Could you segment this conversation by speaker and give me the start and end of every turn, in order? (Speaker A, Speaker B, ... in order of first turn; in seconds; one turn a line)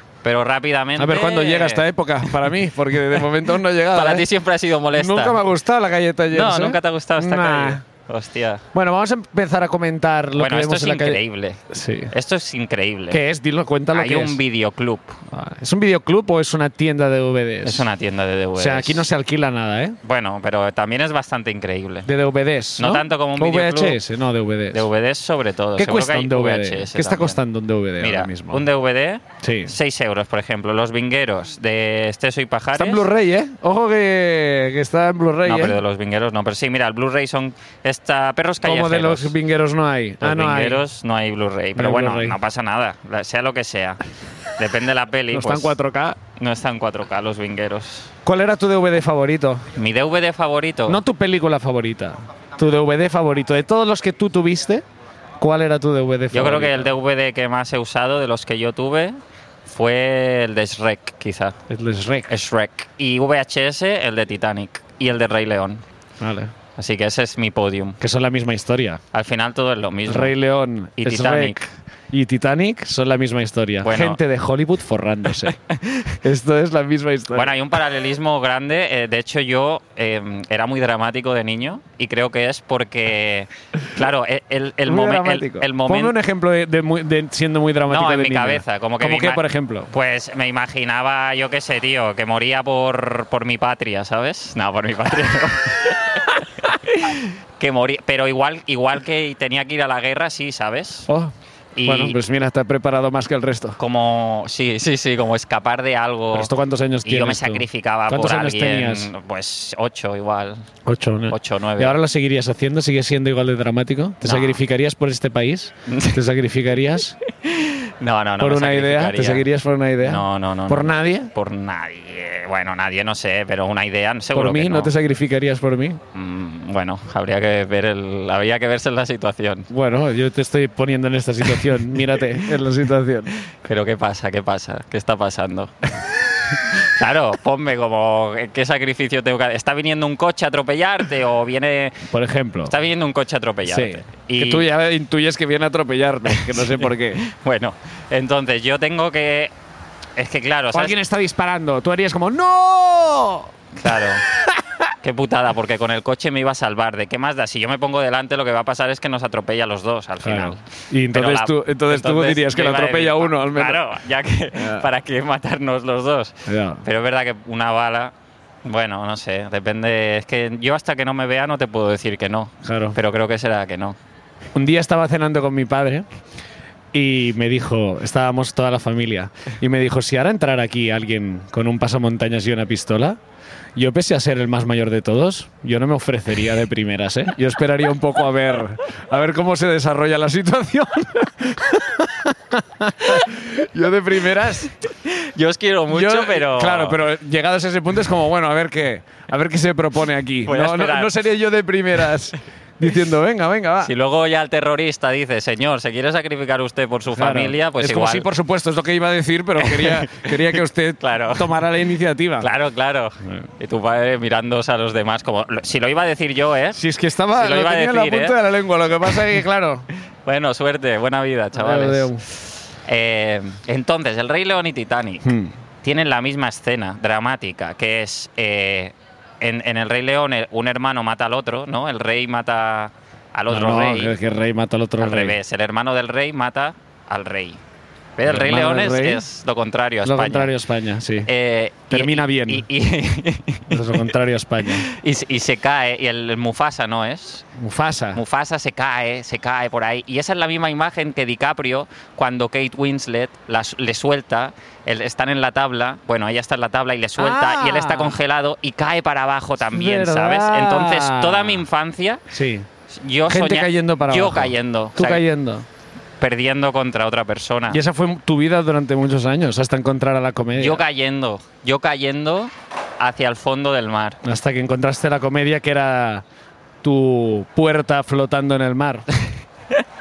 Speaker A: 0.2-2.5
Speaker B: 1.0-4.3
Speaker A: 3.9-5.4
Speaker B: 4.9-7.8
Speaker A: 6.3-8.6
Speaker B: 8.7-12.1
Speaker A: 10.3-13.2
Speaker B: 13.1-14.4
Speaker A: 13.9-15.2
Speaker B: 15.3-17.9
Speaker A: 17.6-19.1
Speaker B: 18.6-20.0
Speaker A: 20.0-22.1
Speaker B: 22.1-24.9
Speaker A: 22.8-24.0
Speaker A: 24.7-27.4
Speaker B: 25.8-28.6
Speaker A: 28.0-33.1
Speaker B: 29.4-29.7
Speaker B: 32.8-35.8
Speaker A: 35.4-39.4
Speaker B: 38.6-40.8
Speaker A: 40.2-44.0
Speaker B: 41.8-42.4
Speaker A: 44.6-45.8
Speaker B: 45.3-46.2
Speaker A: 46.4-48.1
Speaker B: 48.2-49.6
Speaker A: 49.8-51.0
Speaker B: 50.9-54.9
Speaker B: 55.4-56.9
Speaker A: 56.3-61.6
Speaker B: 61.7-62.3
Speaker A: 62.3-65.8
Speaker B: 66.2-66.5
Speaker A: 66.8-68.0
Speaker B: 68.0-69.0
Speaker A: 69.1-70.3
Speaker B: 70.1-75.6
Speaker A: 71.0-71.6
Speaker A: 73.8-74.2
Speaker A: 75.7-76.1
Speaker B: 76.1-77.5
Speaker A: 77.3-86.2
Speaker B: 84.8-89.9
Speaker A: 87.9-101.1
Speaker A: 101.8-102.2
Speaker B: 101.8-103.8
Speaker A: 103.8-106.5
Speaker B: 106.3-109.1
Speaker A: 107.0-110.7
Speaker B: 110.8-117.2
Speaker A: 111.3-112.0
Speaker A: 114.2-114.6
Speaker A: 115.9-116.2
Speaker A: 117.4-119.5
Speaker B: 118.4-121.3
Speaker A: 120.0-124.9
Speaker B: 124.3-126.0
Speaker A: 126.1-129.7
Speaker B: 129.7-133.3
Speaker A: 133.5-135.9
Speaker A: 136.4-142.1
Speaker B: 142.1-142.7
Speaker A: 142.7-144.7
Speaker B: 143.7-147.2
Speaker A: 146.3-149.5
Speaker A: 150.2-150.9
Speaker B: 150.7-153.5
Speaker A: 153.8-154.2
Speaker B: 154.2-154.9
Speaker A: 155.0-168.1
Speaker B: 160.2-163.8
Speaker B: 164.6-164.9
Speaker B: 166.4-166.8
Speaker A: 168.6-174.0
Speaker B: 172.6-173.0
Speaker B: 174.6-176.1
Speaker B: 176.9-183.2
Speaker B: 183.8-194.7
Speaker A: 195.0-197.0
Speaker B: 195.9-203.9
Speaker A: 200.4-201.2
Speaker A: 203.8-208.3
Speaker B: 207.1-212.5
Speaker A: 209.6-211.6
Speaker A: 212.4-216.8
Speaker B: 216.7-219.9
Speaker A: 217.3-218.4
Speaker A: 220.2-222.2
Speaker B: 221.6-222.2
Speaker A: 222.8-225.3
Speaker B: 225.2-225.5
Speaker A: 225.8-234.2
Speaker B: 233.5-235.4
Speaker A: 235.0-237.6
Speaker A: 238.2-240.5
Speaker B: 238.2-239.2
Speaker B: 240.0-241.3
Speaker A: 241.2-244.0
Speaker B: 241.9-242.7
Speaker B: 243.7-244.9
Speaker A: 244.7-247.5
Speaker B: 247.6-248.2
Speaker A: 248.1-262.2
Speaker B: 257.2-258.2
Speaker B: 259.7-261.6
Speaker B: 262.3-262.7
Speaker A: 262.9-265.2
Speaker B: 263.3-265.6
Speaker A: 266.2-267.8
Speaker B: 267.7-270.8
Speaker A: 270.6-274.2
Speaker B: 274.2-276.2
Speaker B: 276.8-279.1